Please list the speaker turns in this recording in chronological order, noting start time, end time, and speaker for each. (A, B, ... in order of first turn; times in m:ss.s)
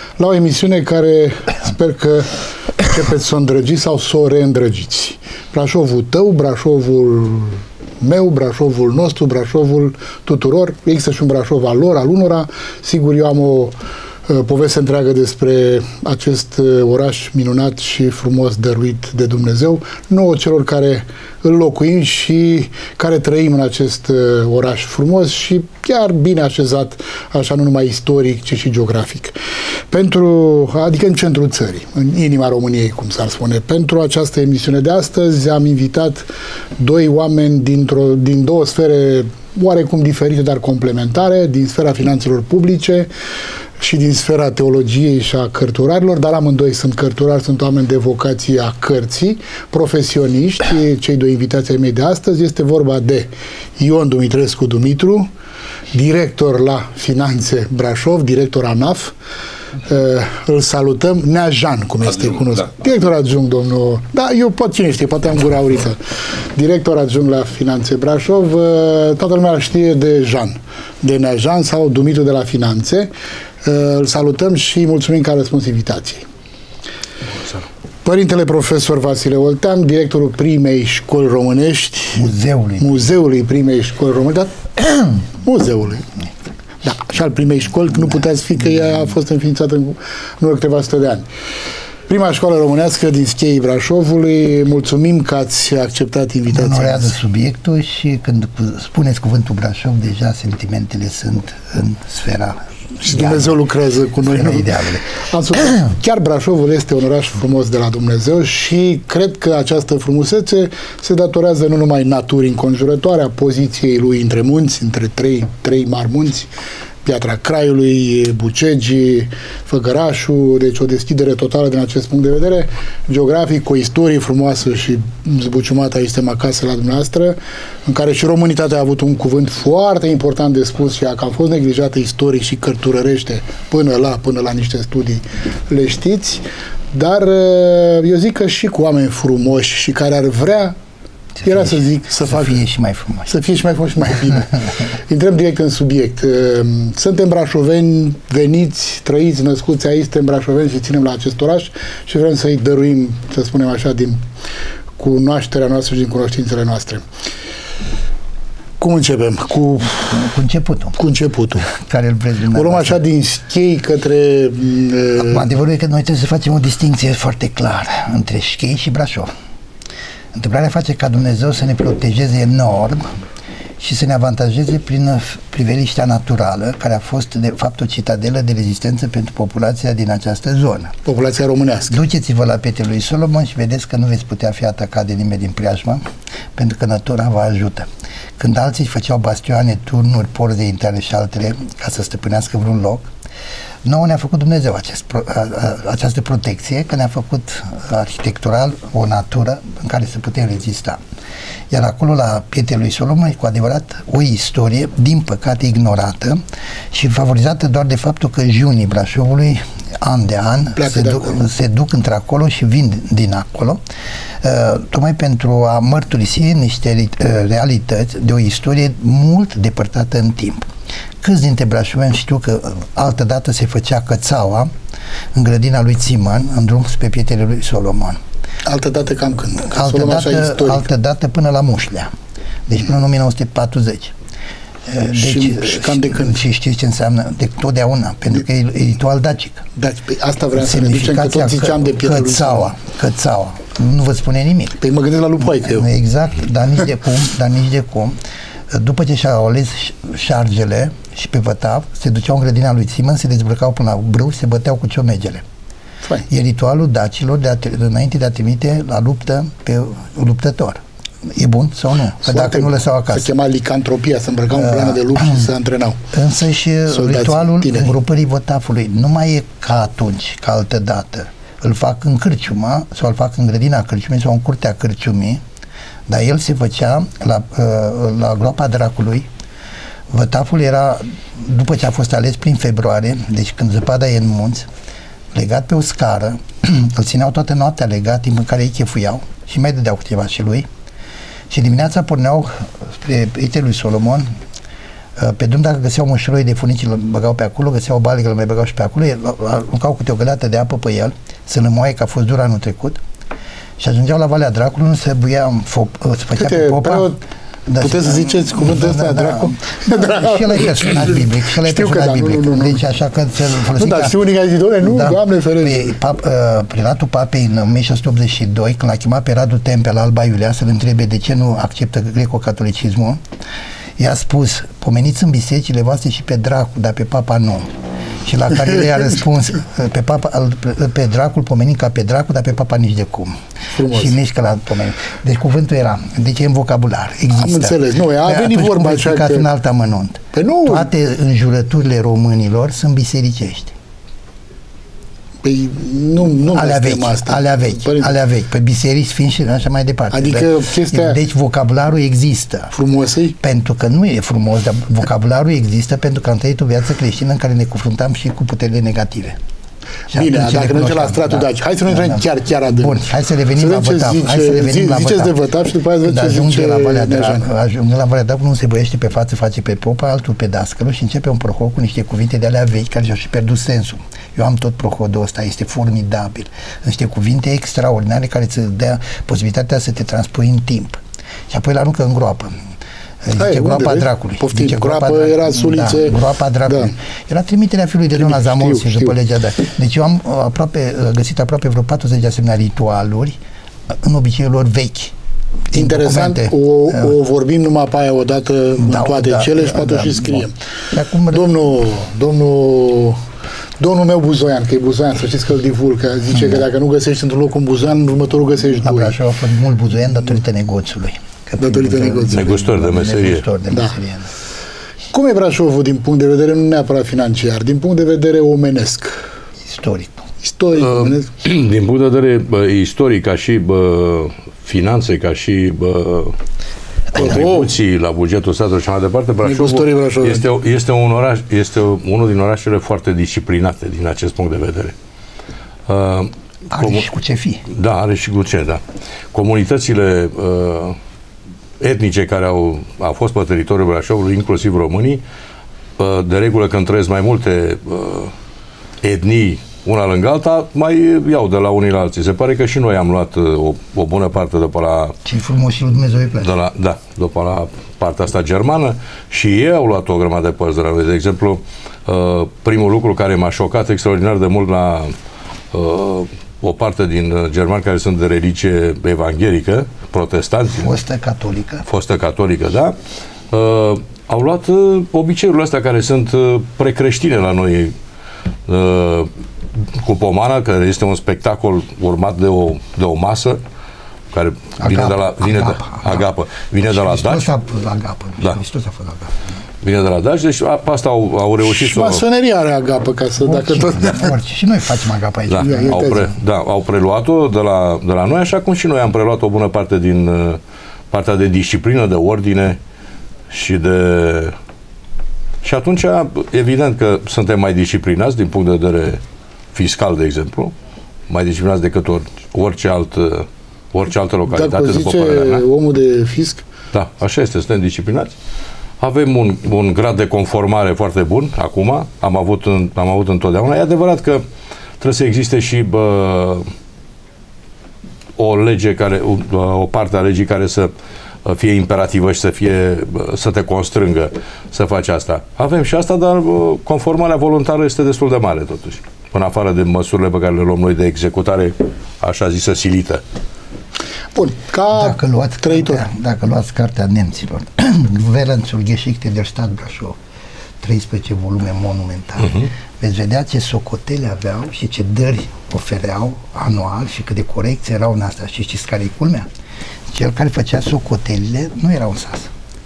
0:00.2-0:29.3 A
0:29.9-0:36.3 A
0:36.8-0:43.1 A
0:43.8-0:55.3 A
0:55.9-0:59.1 A
0:59.8-1:13.1 A
1:13.6-1:16.3 A
1:18.0-1:24.6 A
1:22.2-1:23.0 B
1:25.4-1:26.1 A
1:26.8-1:31.2 A
1:32.1-1:37.2 A
1:36.5-1:43.6 B
1:43.0-1:56.5 A
1:44.2-1:45.0 B
1:57.0-2:20.8 A
2:21.4-2:23.3 B
2:21.4-2:22.6 A
2:23.3-2:34.2 A
2:35.0-2:37.0 A
2:38.8-2:40.2 A
2:40.0-2:41.0 B
2:41.0-2:41.7 A
2:41.6-2:43.0 B
2:42.5-2:45.5 A
2:45.2-2:49.3 B
2:50.3-2:53.0 B
2:53.8-3:00.9 B
3:01.0-3:02.0 A
3:01.9-3:06.0 B
3:06.6-3:13.1 B
3:13.8-3:21.0 B
3:21.7-3:26.4 B
3:26.9-3:33.8 B
3:30.8-3:31.4 A
3:34.4-3:40.7 B
3:41.2-3:44.7 B
3:45.3-3:48.2 B
3:48.6-3:50.8 A
3:49.6-3:52.1 B
3:52.7-3:54.1 B
3:54.8-3:59.6 B
3:55.1-3:56.4 A
3:59.8-4:02.7 A
4:00.5-4:04.8 B
4:04.8-4:05.9 A
4:05.6-4:08.2 B
4:08.7-4:15.4 B
4:16.3-4:23.3 B
4:22.2-4:26.0 A
4:24.5-4:25.5 B
4:26.1-4:35.4 B
4:26.9-4:27.9 A
4:36.1-4:39.3 B
4:40.1-4:44.7 B
4:45.3-4:50.7 B
4:51.5-4:54.3 B
4:55.2-5:03.0 B
5:03.8-5:07.1 B
5:06.4-5:07.2 A
5:07.7-5:14.2 B
5:07.8-5:12.8 A
5:13.7-5:15.9 A
5:14.8-5:23.2 B
5:24.0-5:27.7 B
5:28.2-5:43.7 B
5:33.7-5:34.2 A
5:37.3-5:39.4 A
5:40.3-5:40.9 A
5:45.4-5:48.1 A
5:46.5-5:52.7 B
5:50.1-5:51.2 A
5:52.7-5:53.4 A
5:53.4-5:59.4 B
6:00.1-6:05.4 B
6:00.1-6:07.5 A
6:06.0-6:21.0 B
6:21.5-6:22.6 B
6:23.2-6:33.4 B
6:23.3-6:26.9 A
6:28.1-6:29.1 A
6:33.9-6:35.1 B
6:35.7-6:37.1 B
6:35.7-6:40.5 A
6:38.8-6:41.5 B
6:41.3-6:43.2 A
6:43.8-6:49.2 A
6:48.8-6:54.3 B
6:51.6-6:52.5 A
6:52.3-6:53.4 C
6:55.1-6:59.1 A
6:59.6-7:00.2 B
7:00.4-7:01.3 A
7:00.9-7:06.4 C
7:07.1-7:14.9 C
7:07.1-7:07.7 A
7:09.4-7:10.4 A
7:15.9-7:17.1 C
7:16.7-7:17.6 B
7:17.7-7:18.8 C
7:19.3-7:21.0 C
7:21.8-7:25.2 C
7:26.0-7:28.3 C
7:29.0-7:35.2 C
7:35.2-7:36.6 B
7:36.4-7:45.1 C
7:45.7-7:50.9 C
7:50.8-7:51.8 B
7:51.9-7:53.0 C
7:53.5-7:57.9 C
7:58.7-7:59.3 C
7:59.9-8:03.6 C
8:04.3-8:07.5 C
8:04.8-8:06.2 B
8:06.9-8:09.3 B
8:09.8-8:12.2 C
8:11.6-8:14.3 A
8:13.4-8:16.1 B
8:15.5-8:20.6 C
8:15.6-8:16.3 A
8:21.1-8:22.8 C
8:23.5-8:24.5 C
8:25.6-8:29.2 C
8:29.7-8:30.7 C
8:31.3-8:35.6 C
8:34.5-8:36.6 A
8:36.9-8:38.3 C
8:39.0-8:44.4 C
8:45.0-8:46.7 C
8:48.4-8:50.9 C
8:51.4-9:03.2 C
9:04.3-9:06.0 A
9:04.9-9:10.2 B
9:10.8-9:19.5 B
9:20.1-9:22.5 B